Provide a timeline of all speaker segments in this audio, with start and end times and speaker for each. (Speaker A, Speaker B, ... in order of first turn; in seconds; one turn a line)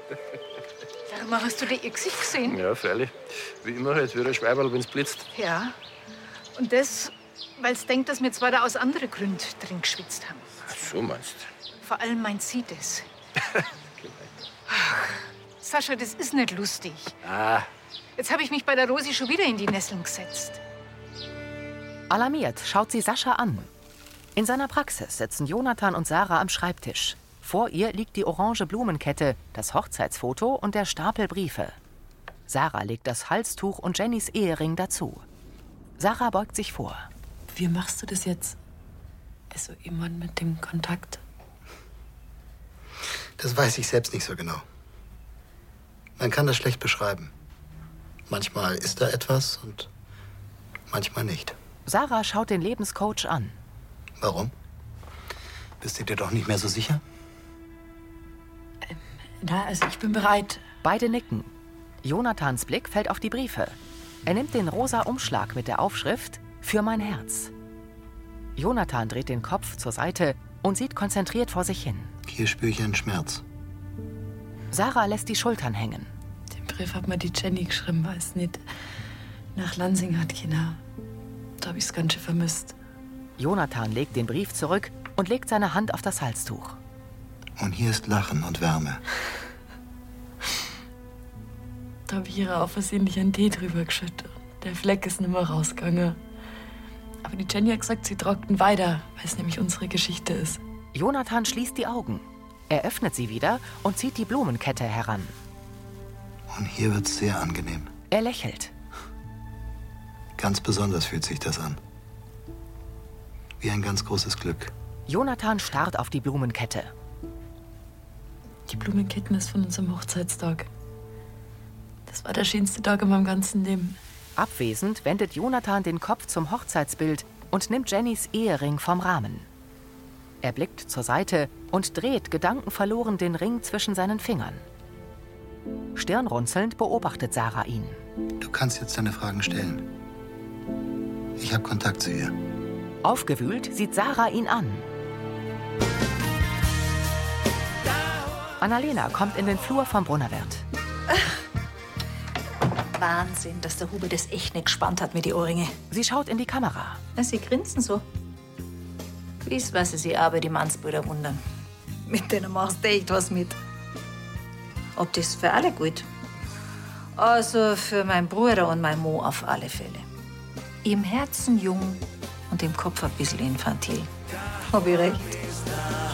Speaker A: 1.1-2.6
Speaker B: 2.5-5.3
Speaker A: 5.3-5.7
Speaker A: 6.5-10.5
Speaker B: 10.7-11.5
Speaker A: 11.8-13.1
Speaker B: 14.0-14.3
Speaker A: 14.7-17.1
Speaker B: 17.2-17.7
Speaker A: 18.2-20.6
Speaker C: 22.1-23.7
Speaker C: 24.4-31.8
Speaker C: 32.5-35.2
Speaker C: 36.0-37.0
Speaker D: 37.5-38.6
Speaker D: 39.5-41.2
Speaker E: 43.4-44.6
Speaker E: 46.2-47.3
Speaker E: 48.3-49.9
Speaker E: 50.9-51.5
Speaker C: 51.9-53.5
Speaker E: 54.2-54.5
Speaker E: 55.8-57.0
Speaker D: 58.9-60.6
Speaker C: 60.8-61.5
Speaker C: 62.0-67.5
Speaker C: 68.5-72.1
Speaker E: 72.2-73.4
Speaker C: 74.7-76.1
Speaker D: 76.5-78.6
Speaker D: 79.5-80.8
Speaker D: 81.6-82.8
Speaker C: 83.4-86.8
Speaker E: 87.6-89.0
Speaker D: 92.1-96.2
Speaker D: 97.2-100.6
Speaker C: 100.9-105.3
Speaker E: 106.5-107.9
Speaker C: 108.1-108.7
Speaker E: 110.3-111.8
Speaker E: 113.6-114.7
Speaker C: 115.1-116.9
Speaker D: 118.7-120.7
Speaker D: 122.1-124.0
Speaker C: 124.4-129.5
Speaker C: 130.4-134.6
Speaker C: 135.9-138.0
Speaker E: 138.4-139.9
Speaker E: 141.4-142.3
Speaker C: 143.0-144.9
Speaker C: 148.6-150.6
Speaker F: 152.9-155.8
Speaker C: 155.9-157.0
Speaker F: 157.2-158.0
Speaker F: 159.4-161.4
Speaker F: 162.1-163.6
Speaker F: 164.9-166.1
Speaker F: 167.2-170.1
Speaker F: 170.8-174.1
Speaker F: 174.7-175.4